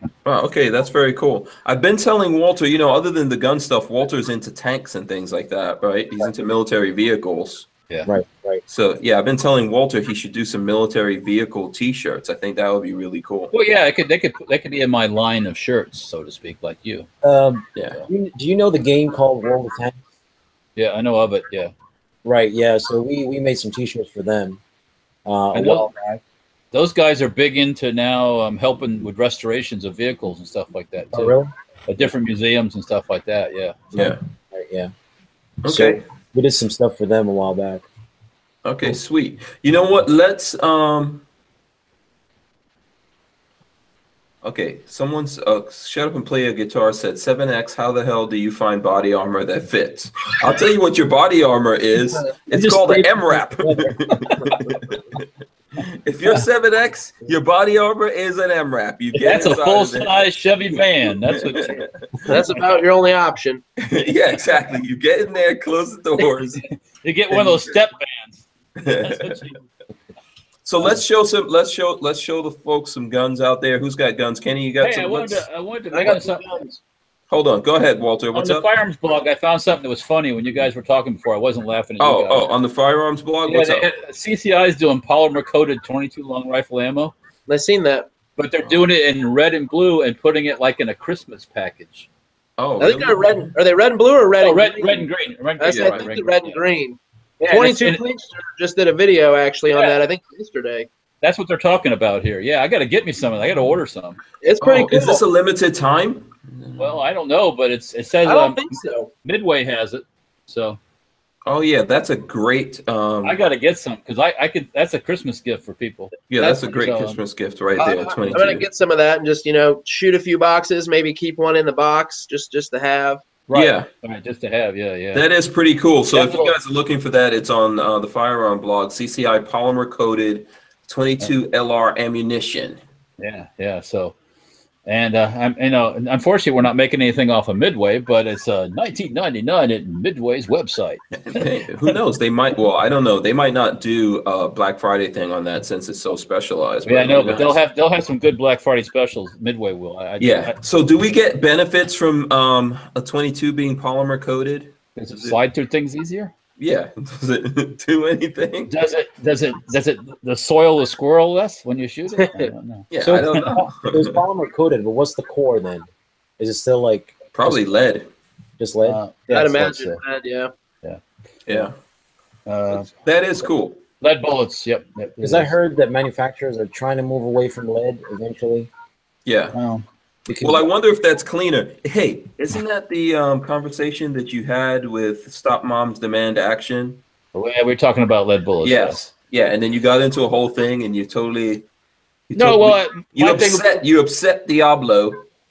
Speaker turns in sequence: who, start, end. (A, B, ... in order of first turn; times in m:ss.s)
0:00.2-0:07.7 A
0:08.1-0:08.6 B
0:08.7-0:13.5 A
0:13.5-0:17.1 C
0:17.2-0:20.0 B
0:17.8-0:18.0 A
0:20.8-0:21.7 C
0:22.2-0:24.6 B
0:25.3-0:26.2 B
0:25.5-0:25.9 C
0:26.7-0:31.4 C
0:31.1-0:31.5 B
0:31.9-0:33.9 C
0:33.9-0:34.2 A
0:34.0-0:34.9 B
0:35.6-0:36.0 A
0:35.7-0:37.9 B
0:38.6-0:41.2 A
0:44.4-0:55.2 A
0:52.5-0:54.7 B
0:55.8-1:00.3 A
0:59.2-1:02.6 C
1:01.3-1:02.0 A
1:02.3-1:03.6 D
1:03.8-1:06.6 A
1:07.0-1:09.6 C
1:07.3-1:07.7 A
1:08.8-1:09.4 A
1:10.7-1:15.4 A
1:14.8-1:16.6 C
1:15.9-1:16.8 D
1:17.3-1:18.7 A
1:18.3-1:22.5 C
1:22.0-1:23.9 A
1:23.4-1:27.1 C
1:27.5-1:28.1 D
1:28.4-1:32.1 C
1:28.6-1:28.9 A
1:32.6-1:33.5 A
1:32.8-1:35.1 D
1:34.4-1:36.6 C
1:35.6-1:40.9 D
1:35.7-1:36.1 A
1:37.4-1:38.0 C
1:39.7-1:40.0 C
1:41.2-1:44.2 C
1:44.4-1:45.2 D
1:44.6-1:47.0 A
1:46.8-1:50.8 C
1:48.2-1:49.1 D
1:51.5-1:53.4 A
1:53.2-1:57.2 C
1:56.3-1:58.6 A
1:57.8-2:03.2 D
1:58.2-1:58.5 C
2:03.5-2:05.3 C
2:03.5-2:03.9 A
2:05.1-2:12.8 A
2:06.1-2:06.6 C
2:13.2-2:14.2 C
2:14.9-2:21.9 C
2:21.1-2:27.6 A
2:26.8-2:30.6 C
2:30.2-2:35.4 A
2:35.0-2:36.3 C
2:36.6-2:38.7 A
2:38.7-2:43.6 C
2:42.9-2:44.2 A
2:43.0-2:45.9 B
2:46.4-2:47.6 B
2:47.3-2:48.1 A
2:48.6-2:49.0 B
2:48.8-2:50.0 C
2:49.3-2:50.5 D
2:51.5-2:51.7 A
2:52.5-2:52.9 C
2:52.7-2:53.8 A
2:54.0-2:55.5 C
2:55.2-2:58.7 B
2:59.3-2:59.6 A
2:59.5-2:59.8 C
3:00.3-3:00.6 B
3:00.4-3:07.0 A
3:07.3-3:09.0 C
3:08.6-3:11.6 A
3:12.3-3:15.3 A
3:12.4-3:13.8 C